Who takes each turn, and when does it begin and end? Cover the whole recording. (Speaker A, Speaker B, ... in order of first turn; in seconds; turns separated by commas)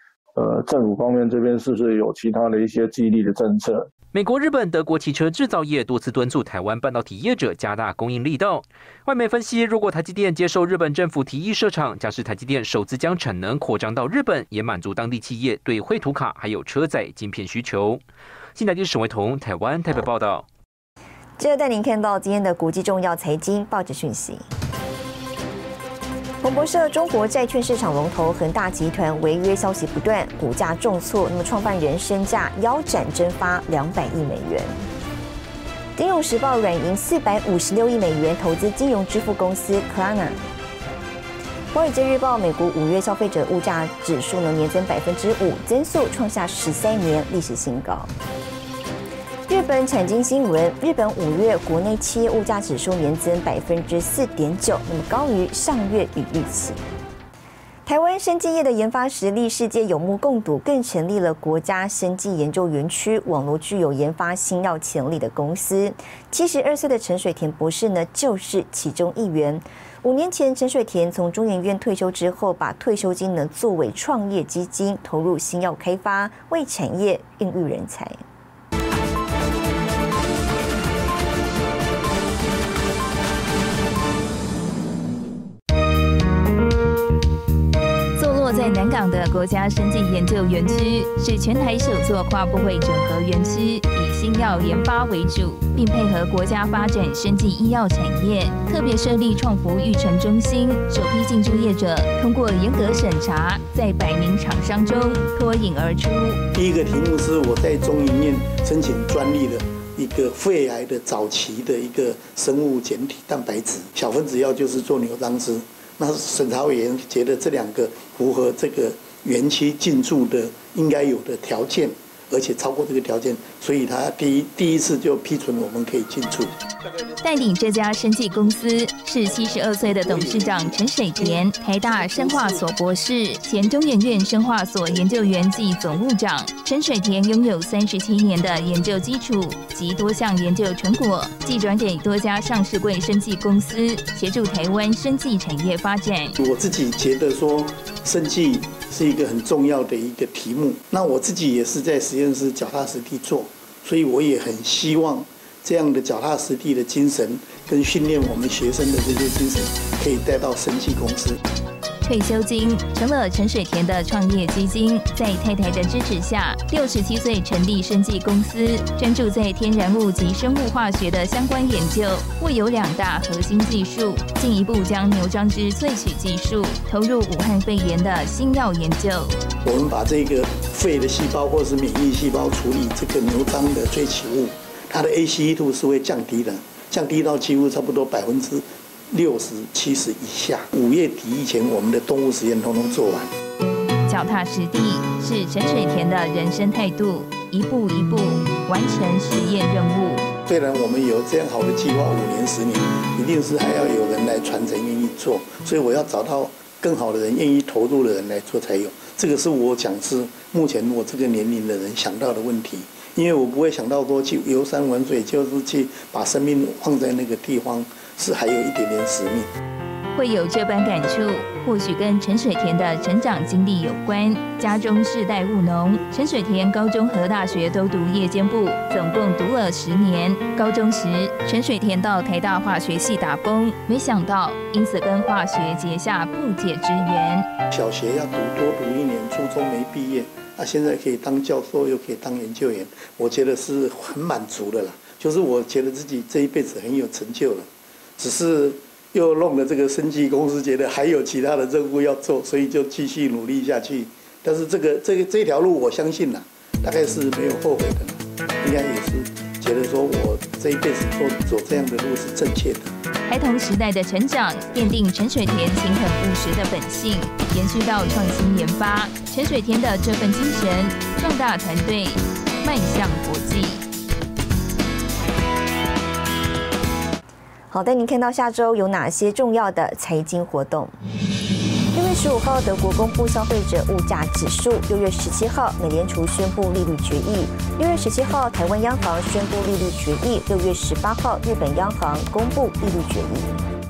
Speaker A: 0.4-3.9, Speaker B: 4.1-18.0, Speaker B: 18.6-20.4, Speaker C: 21.4-24.5, Speaker C: 26.4-34.8, Speaker C: 36.0-40.4, Speaker C: 41.7-48.1, Speaker C: 49.5-56.8, Speaker C: 57.9-78.2, Speaker D: 88.2-106.4, Speaker E: 106.5-126.5, Speaker D: 127.2-146.4, Speaker E: 129.9-132.6, Speaker E: 146.4-161.4, Speaker D: 162.0-179.4, Speaker E: 179.6-193.3, Speaker D: 194.1-200.2, Speaker E: 200.5-219.5, Speaker D: 220.1-237.5, Speaker E: 237.7-262.9, Speaker D: 263.3-273.8, Speaker C: 277.7-280.9, Speaker C: 281.9-293.6